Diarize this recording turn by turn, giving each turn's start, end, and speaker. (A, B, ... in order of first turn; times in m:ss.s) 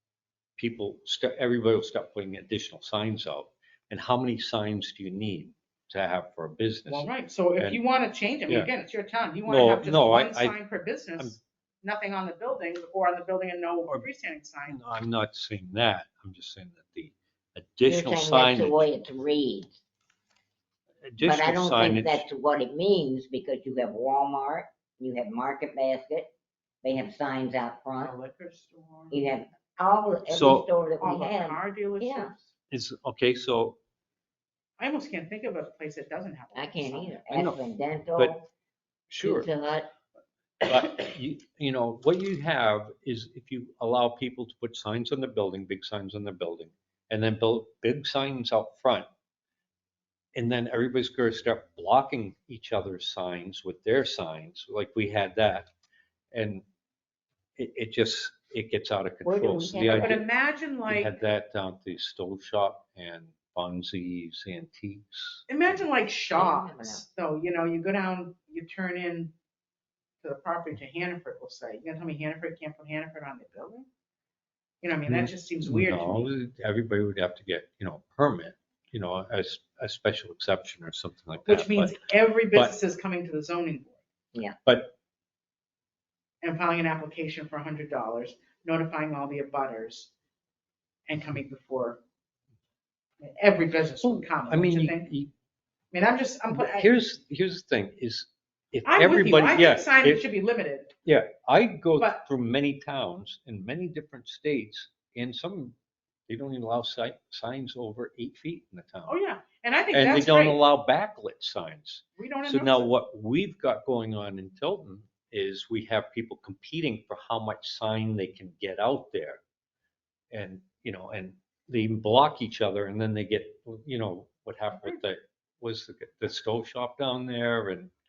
0:00.6-0:07.8 A
0:06.8-0:14.8 B
0:09.4-0:10.6 A
0:14.7-0:18.9 A
0:17.8-0:19.8 C
0:21.0-0:22.2 A
0:21.2-0:26.3 C
0:26.8-0:28.1 C
0:28.0-0:29.3 B
0:29.1-0:32.3 C
0:30.3-0:30.7 A
0:31.0-0:32.5 B
0:32.7-0:33.8 A
0:34.8-0:37.2 B
0:36.5-0:38.5 C
0:37.3-0:37.6 A
0:39.1-0:39.5 A
0:39.2-0:39.9 C
0:40.6-0:40.9 C
0:40.6-0:49.1 A
0:50.3-0:55.7 A
0:56.3-0:56.6 A
0:57.6-1:00.2 A
0:59.2-1:00.2 C
0:59.7-1:01.2 B
1:00.9-1:05.5 A
1:05.5-1:09.3 B
1:06.3-1:07.0 C
1:10.2-1:13.9 B
1:14.8-1:16.3 B
1:15.1-1:22.0 A
1:21.4-1:24.0 B
1:24.6-1:24.9 A
1:26.4-1:30.1 B
1:31.1-1:32.0 B
1:33.2-1:35.1 B
1:34.0-1:35.3 A
1:35.9-1:36.9 B
1:36.5-1:40.2 A
1:38.8-1:40.9 B
1:41.0-1:45.7 A
1:46.3-1:49.1 A
1:49.1-1:50.6 B
1:49.9-1:59.4 A
1:52.2-1:52.9 B
2:00.3-2:07.9 A